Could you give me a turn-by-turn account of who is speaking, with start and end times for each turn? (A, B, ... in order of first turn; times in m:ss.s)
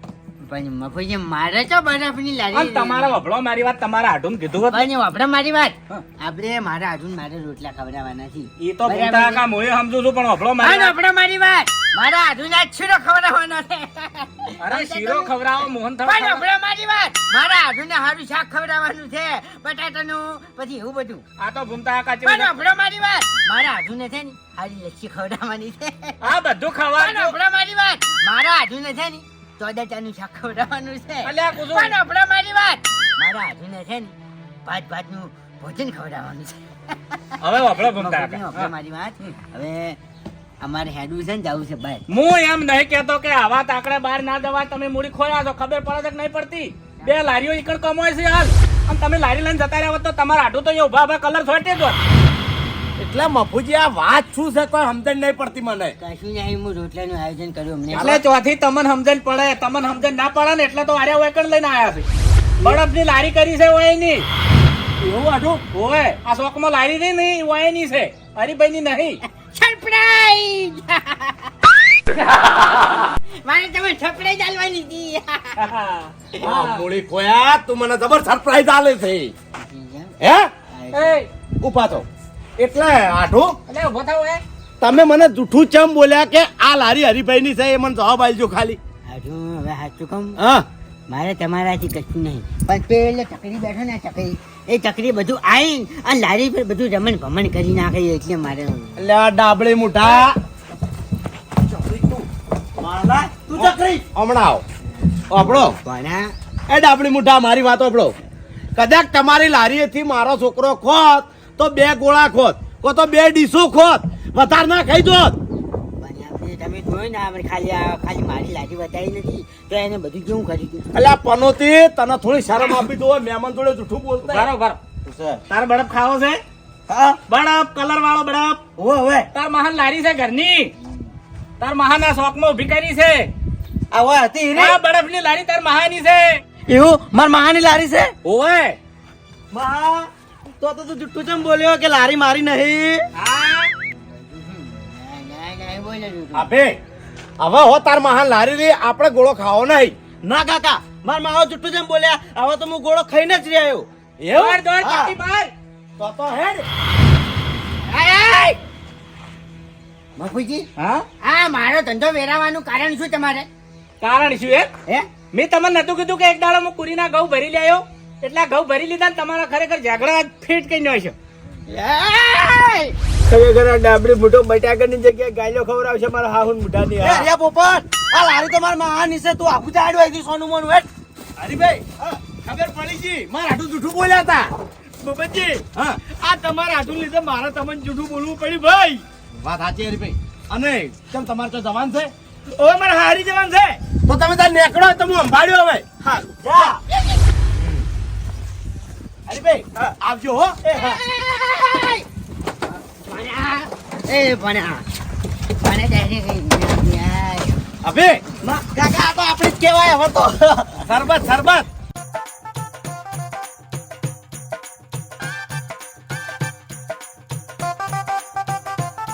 0:00.4-0:03.2 A
0:02.5-0:04.9 B
0:04.7-0:09.4 A
0:08.6-0:10.9 B
0:10.6-0:15.3 A
0:14.6-0:16.4 B
0:16.0-0:21.2 A
0:21.4-0:22.5 B
0:22.2-0:26.2 A
0:26.2-0:27.3 B
0:27.0-0:34.1 A
0:31.2-0:32.0 B
0:34.6-0:40.0 A
0:37.4-0:38.7 B
0:40.6-0:42.0 A
0:42.1-0:52.0 B
0:53.0-0:56.0 C
0:56.0-0:58.2 A
0:57.9-1:02.0 B
0:57.9-0:58.2 C
1:02.6-1:04.2 B
1:05.0-1:05.6 C
1:05.7-1:09.2 B
1:09.4-1:11.7 A
1:13.4-1:15.7 A
1:15.6-1:16.9 B
1:16.4-1:19.3 C
1:19.6-1:20.1 A
1:20.2-1:20.5 C
1:20.7-1:21.2 A
1:20.9-1:21.3 B
1:21.6-1:22.1 C
1:22.6-1:23.6 C
1:23.7-1:24.4 B
1:24.8-1:28.8 C
1:29.1-1:30.4 A
1:31.1-1:39.1 A
1:39.0-1:40.4 C
1:42.8-1:44.0 D
1:43.5-1:44.6 C
1:45.3-1:45.8 C
1:45.4-1:46.3 A
1:46.7-1:48.1 C
1:48.8-1:55.4 C
1:56.0-2:00.8 A
2:00.9-2:04.5 C
2:04.2-2:04.8 B
2:05.0-2:05.4 D
2:05.5-2:06.4 B
2:06.9-2:07.2 D
2:07.3-2:08.6 B
2:08.8-2:09.3 D
2:09.3-2:10.7 B
2:11.6-2:13.3 B
2:13.9-2:14.8 D
2:14.5-2:16.4 B
2:16.7-2:18.1 D
2:18.2-2:18.8 B
2:19.5-2:20.1 D
2:20.6-2:23.0 D
2:23.2-2:23.7 B
2:23.9-2:26.5 A
2:26.3-2:26.8 C
2:27.4-2:29.9 C
2:30.2-2:33.9 D
2:34.2-2:34.6 C
2:34.3-2:35.5 B
2:34.8-2:35.1 D
2:36.0-2:36.6 C
2:37.9-2:38.5 A
2:40.2-2:40.7 A
2:40.8-2:41.0 B
2:41.2-2:43.5 A
2:44.0-2:44.7 B
2:45.3-2:51.1 B
2:51.7-2:52.6 A
2:53.2-2:57.3 E
2:57.0-3:00.8 D
3:01.4-3:04.5 C
3:05.0-3:09.0 E
3:09.4-3:12.1 C
3:12.6-3:13.8 E
3:14.0-3:15.8 C
3:16.3-3:16.8 D
3:19.3-3:21.0 C
3:20.7-3:22.0 A
3:23.0-3:24.8 A
3:25.6-3:27.6 A
3:27.8-3:28.2 C
3:28.4-3:30.8 D
3:30.8-3:31.7 C